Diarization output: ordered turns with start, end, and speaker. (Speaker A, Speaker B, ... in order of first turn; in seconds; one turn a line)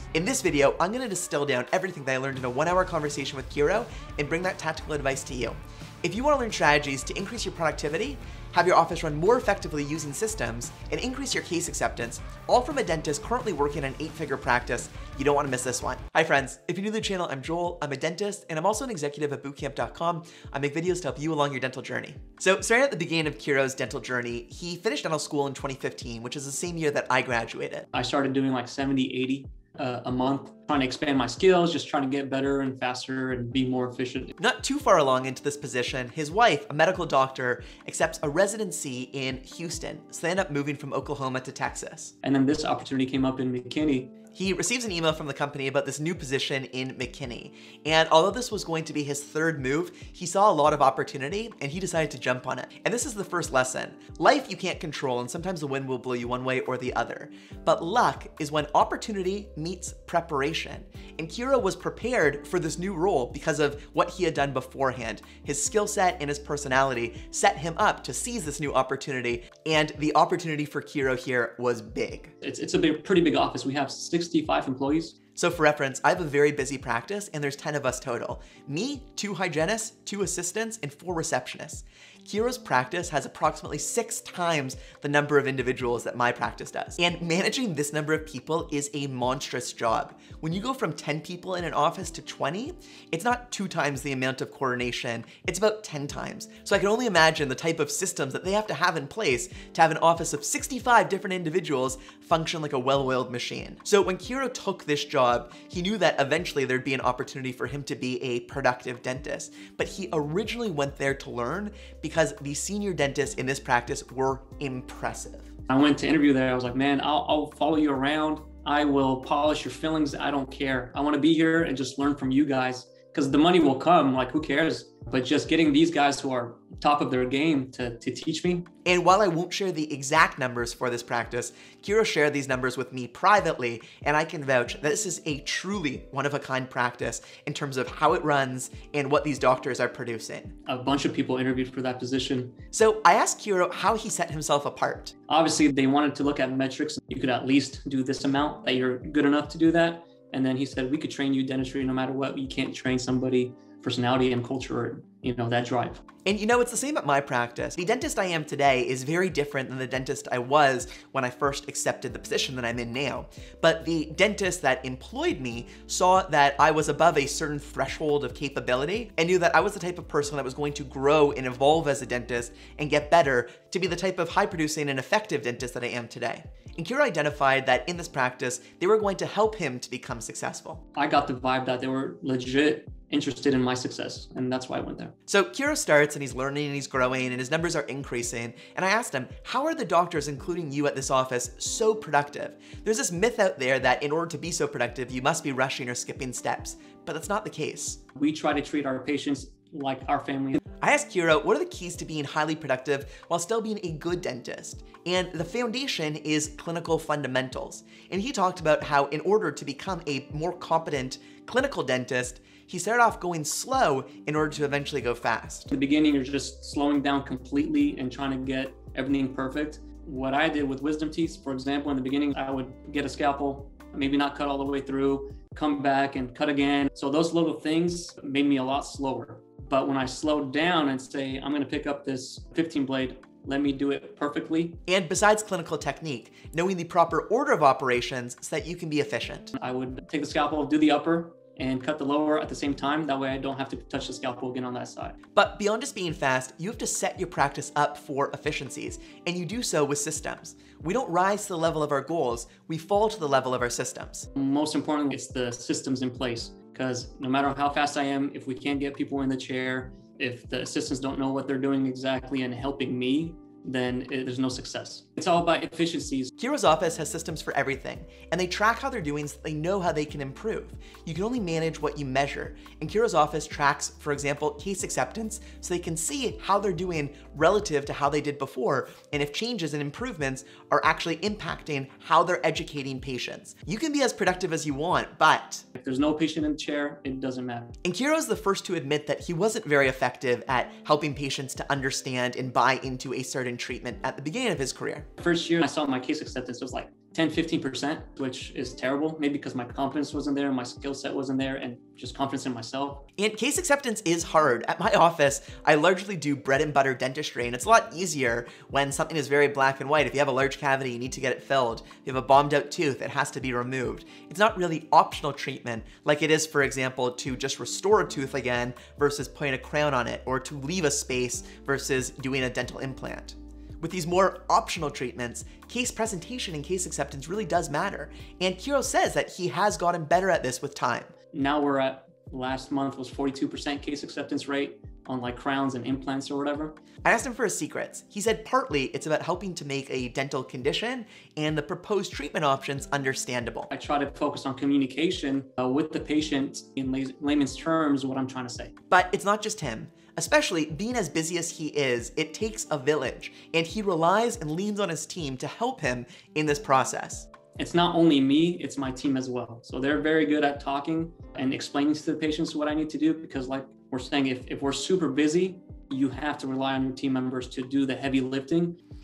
Speaker A: 0.1-27.9
Speaker B: 27.9-34.4
Speaker A: 34.4-42.1
Speaker B: 42.2-44.1
Speaker A: 44.4-72.3
Speaker B: 72.4-75.2
Speaker A: 75.4-115.5
Speaker B: 115.7-128.7
Speaker A: 128.8-140.6
Speaker B: 140.7-142.6
Speaker A: 142.7-145.1
Speaker B: 145.3-156.0
Speaker A: 156.2-180.8
Speaker B: 180.9-185.1
Speaker A: 185.3-198.0
Speaker B: 198.2-200.6
Speaker A: 200.8-215.7
Speaker B: 215.7-234.8
Speaker A: 234.9-239.6
Speaker B: 239.6-245.2
Speaker A: 245.3-254.3
Speaker B: 254.3-266.3
Speaker A: 266.4-285.7
Speaker B: 285.8-287.8
Speaker A: 287.8-295.1
Speaker B: 295.2-303.1
Speaker A: 303.2-331.1
Speaker B: 331.3-336.8
Speaker A: 337.1-343.7
Speaker B: 343.7-348.7
Speaker A: 348.9-357.3
Speaker B: 357.6-368.8